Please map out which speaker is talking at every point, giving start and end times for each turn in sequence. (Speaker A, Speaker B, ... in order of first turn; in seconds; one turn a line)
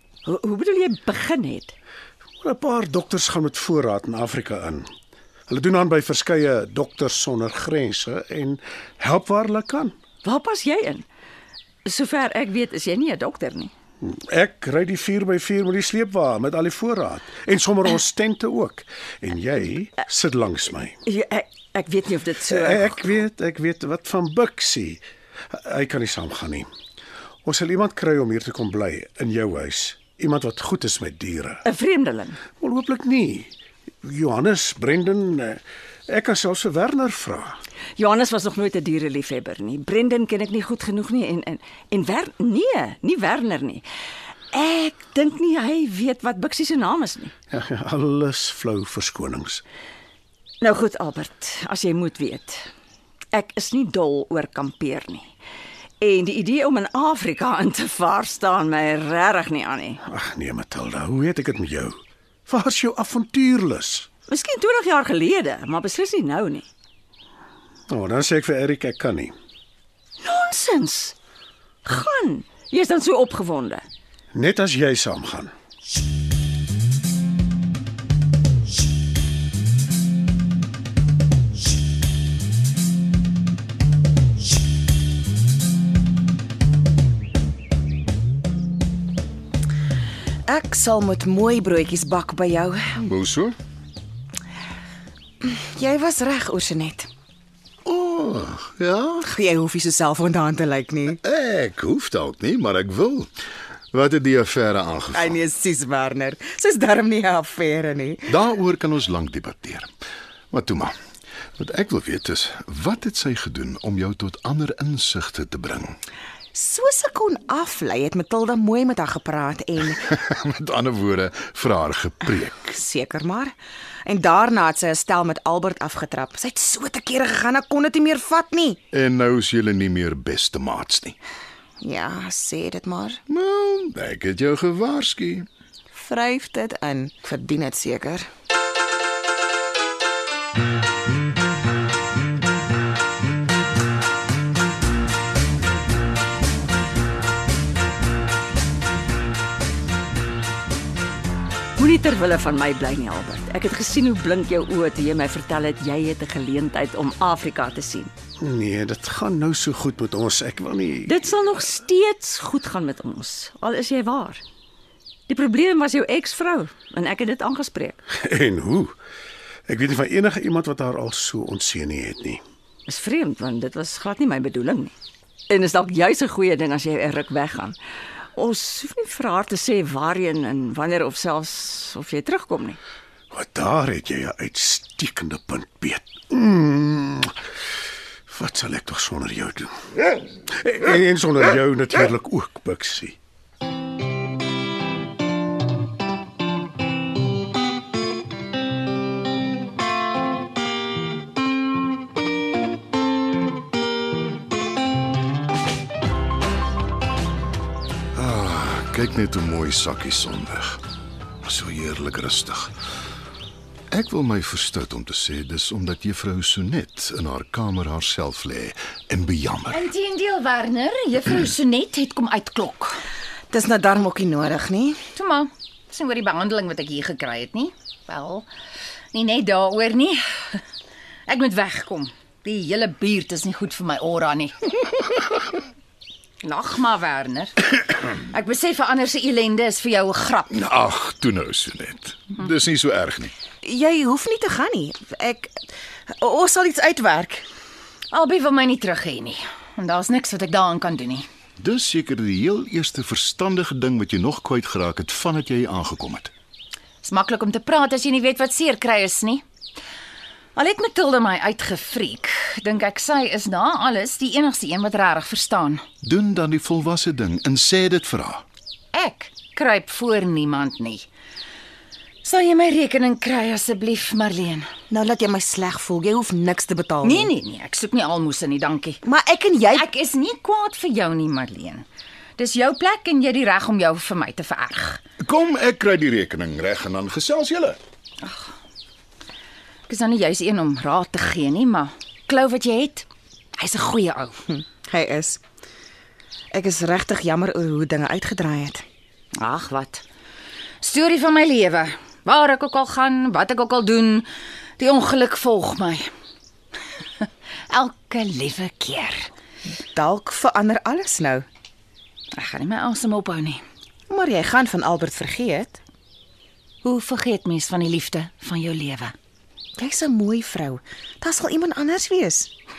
Speaker A: 0.2-1.8
Speaker B: 2.4-4.9
Speaker B: 5.5-9.9
Speaker A: 10.2-11.1
Speaker A: 11.8-13.7
Speaker B: 14.0-21.0
Speaker A: 21.1-22.9
Speaker B: 22.5-26.7
Speaker B: 27.4-31.6
Speaker A: 31.6-32.4
Speaker B: 32.5-33.5
Speaker B: 34.0-37.6
Speaker A: 38.0-43.9
Speaker A: 44.5-47.3
Speaker B: 47.5-49.6
Speaker A: 50.6-52.7
Speaker A: 53.3-55.3
Speaker A: 56.0-60.0
Speaker B: 60.0-64.1
Speaker A: 64.3-66.7
Speaker B: 67.9-69.3
Speaker A: 70.2-71.2
Speaker A: 71.8-73.9
Speaker B: 74.3-75.5
Speaker C: 90.5-93.0
Speaker D: 93.0-93.6
Speaker C: 95.4-97.1
Speaker D: 97.9-99.2
Speaker C: 99.2-101.2
Speaker D: 101.3-103.3
Speaker D: 103.9-105.3
Speaker C: 105.1-108.3
Speaker D: 108.3-109.9
Speaker D: 110.5-110.9
Speaker D: 111.6-116.0
Speaker C: 116.5-120.2
Speaker D: 120.2-122.5
Speaker C: 122.6-123.5
Speaker C: 124.1-128.8
Speaker D: 128.9-131.2
Speaker C: 131.8-133.2
Speaker D: 133.3-135.5
Speaker C: 135.9-138.3
Speaker A: 151.8-158.1
Speaker B: 158.4-161.3
Speaker A: 161.1-164.4
Speaker A: 165.3-168.0
Speaker B: 168.1-168.9
Speaker B: 169.7-172.4
Speaker A: 172.9-174.9
Speaker A: 175.5-177.8
Speaker A: 178.3-182.8
Speaker B: 183.3-187.3
Speaker B: 188.3-189.8
Speaker B: 190.5-193.2
Speaker D: 208.2-210.8
Speaker D: 211.4-212.7
Speaker D: 213.9-219.8
Speaker E: 219.7-222.9
Speaker C: 223.5-225.0
Speaker E: 225.2-228.5
Speaker E: 229.1-230.6
Speaker E: 231.3-234.5
Speaker E: 236.4-237.6
Speaker E: 238.2-240.6
Speaker D: 240.5-243.3
Speaker C: 243.6-245.5
Speaker C: 246.1-247.4
Speaker E: 248.1-251.3
Speaker D: 251.6-256.3
Speaker E: 257.0-259.4
Speaker E: 260.6-265.8
Speaker D: 266.0-268.4
Speaker E: 268.9-271.1
Speaker E: 272.2-274.7
Speaker C: 274.9-277.3
Speaker E: 277.0-279.0
Speaker C: 279.0-279.9
Speaker E: 279.7-281.9
Speaker E: 282.4-285.0
Speaker D: 285.2-287.8
Speaker E: 288.2-288.5
Speaker E: 289.9-293.1
Speaker E: 293.6-294.4
Speaker C: 294.5-295.4
Speaker C: 296.5-298.8
Speaker E: 299.4-300.0
Speaker E: 300.8-306.1
Speaker E: 307.2-309.3
Speaker C: 309.9-311.4
Speaker E: 312.4-313.6
Speaker C: 314.1-315.8
Speaker E: 316.8-319.1
Speaker C: 319.8-322.5